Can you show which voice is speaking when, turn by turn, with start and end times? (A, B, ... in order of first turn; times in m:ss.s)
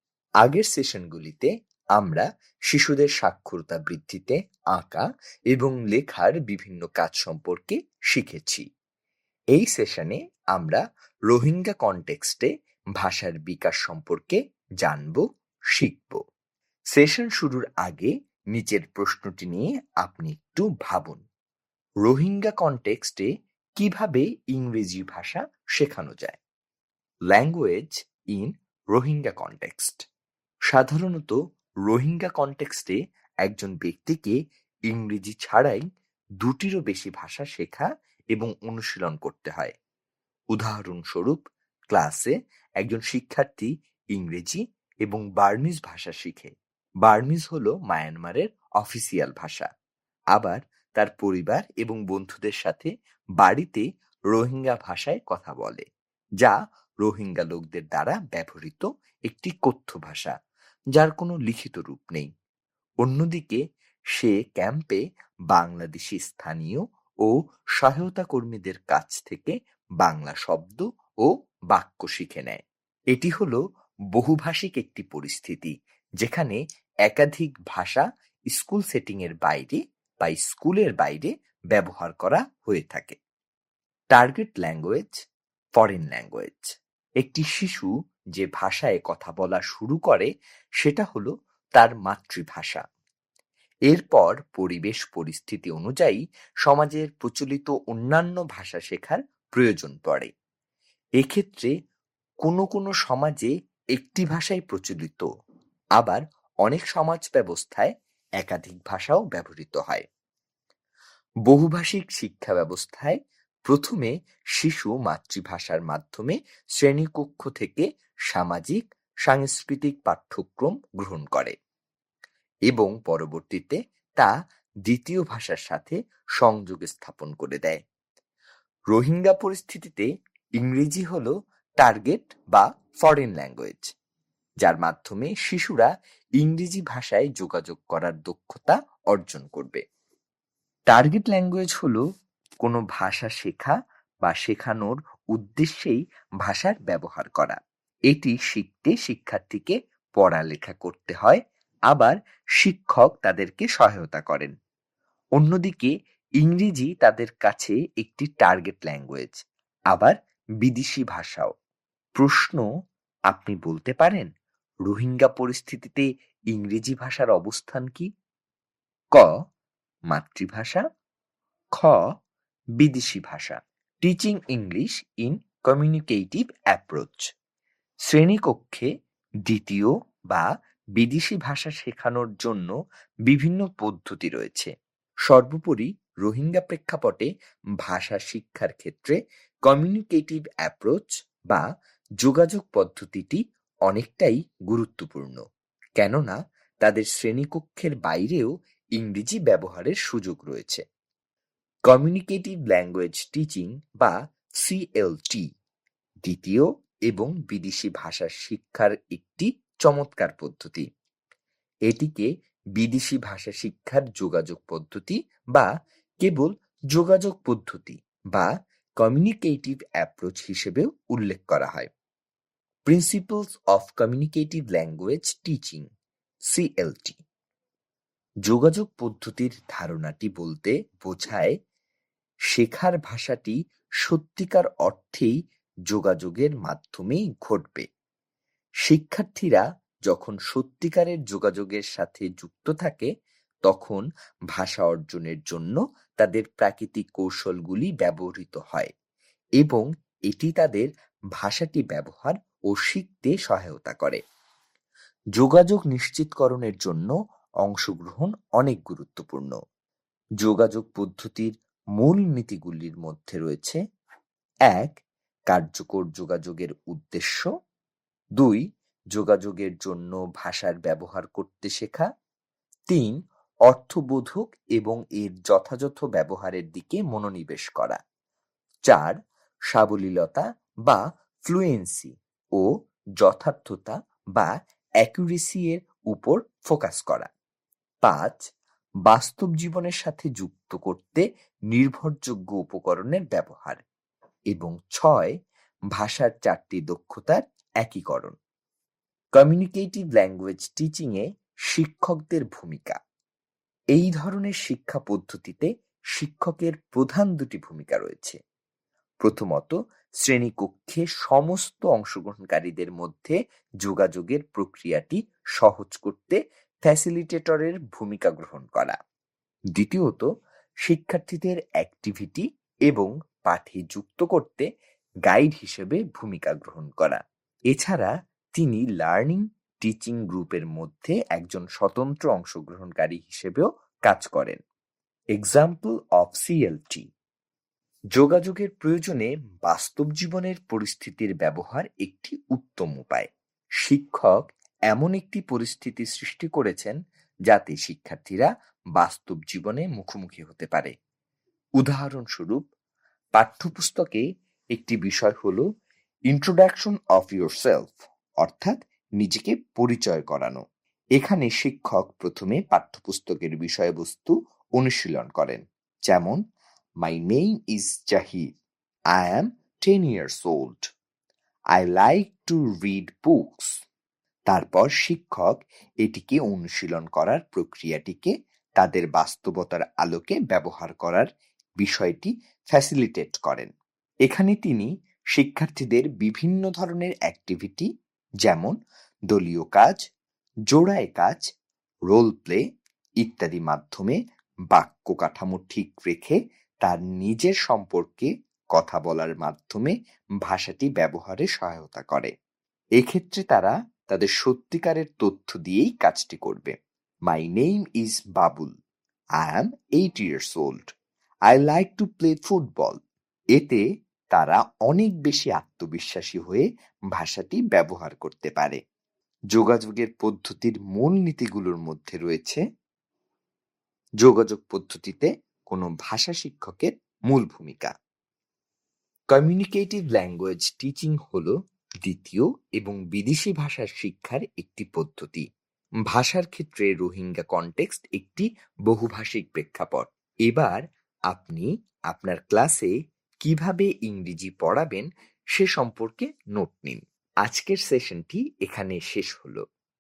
0:00.4-0:08.6 A
0:09.6-0:15.2 A
0:15.7-0:16.2 A
0:16.9-0:21.2 A
0:22.0-0:26.4 A
0:27.3-0:30.0 A
0:30.7-0:31.4 A
0:31.9-0:34.4 A
0:34.9-0:35.8 A
0:36.4-0:39.8 A
0:40.5-0:46.5 A
0:47.0-0:49.7 A
0:50.3-0:55.8 A
0:56.4-1:00.4 A
1:01.0-1:02.3 A
1:03.0-1:03.6 A
1:04.2-1:13.6 A
1:14.1-1:23.2 A
1:24.1-1:25.2 A
1:25.8-1:26.7 A
1:27.2-1:30.3 A
1:30.8-1:32.8 A
1:33.9-1:40.3 A
1:41.2-1:41.7 A
1:42.4-1:45.2 A
1:46.0-1:50.1 A
1:51.5-2:01.6 A
2:02.7-2:04.3 A
2:04.9-2:07.8 A
2:08.9-2:10.1 A
2:10.6-2:13.9 A
2:14.6-2:19.8 A
2:20.9-2:22.0 A
2:22.6-2:27.6 A
2:28.1-2:34.5 A
2:35.4-2:41.5 A
2:42.2-2:42.6 A
2:43.3-2:44.3 A
2:44.9-2:48.1 A
2:50.1-2:50.8 A
2:51.8-2:52.1 A
2:52.8-2:57.2 A
2:58.1-2:58.9 A
2:59.5-3:02.7 A
3:03.3-3:04.7 A
3:05.3-3:07.3 A
3:07.8-3:11.6 A
3:12.2-3:15.4 A
3:16.0-3:20.8 A
3:21.9-3:25.4 A
3:26.2-3:30.9 A
3:31.9-3:35.7 A
3:36.2-3:41.9 A
3:42.9-3:45.9 A
3:46.5-3:47.2 A
3:48.5-3:51.6 A
3:52.5-3:55.4 A
3:55.9-3:57.9 A
3:58.9-4:03.1 A
4:03.7-4:08.9 A
4:09.6-4:14.2 A
4:15.4-4:17.1 A
4:17.6-4:19.6 A
4:20.4-4:23.8 A
4:24.7-4:25.0 A
4:25.5-4:27.5 A
4:28.4-4:32.1 A
4:32.9-4:33.2 A
4:33.7-4:38.0 A
4:38.9-4:39.2 A
4:39.7-4:42.7 A
4:43.2-4:47.3 A
4:48.0-4:48.4 A
4:49.1-4:53.8 A
4:54.5-4:55.4 A
4:56.0-4:58.4 A
4:59.4-5:03.0 A
5:04.0-5:08.4 A
5:09.2-5:19.0 A
5:19.8-5:20.3 A
5:20.8-5:24.7 A
5:25.3-5:27.2 A
5:27.7-5:34.6 A
5:35.4-5:37.0 A
5:38.2-5:43.3 A
5:43.8-5:47.0 A
5:47.5-5:50.9 A
5:51.8-5:52.6 A
5:53.4-5:54.2 A
5:54.8-5:55.6 A
5:56.3-6:00.6 A
6:01.2-6:06.4 A
6:07.0-6:08.5 A
6:09.2-6:10.8 A
6:11.8-6:13.7 A
6:14.5-6:21.3 A
6:21.8-6:23.7 A
6:24.3-6:27.9 A
6:28.4-6:28.8 A
6:29.3-6:30.0 A
6:30.7-6:31.4 A
6:32.1-6:32.6 A
6:33.2-6:34.2 A
6:34.7-6:42.3 A
6:43.0-6:46.8 A
6:47.3-6:48.7 A
6:49.4-6:50.9 A
6:51.5-6:53.0 A
6:53.6-6:53.8 A
6:54.3-6:58.8 A
6:59.5-7:02.6 A
7:04.2-7:07.9 A
7:09.3-7:15.5 A
7:16.1-7:22.9 A
7:23.4-7:29.6 A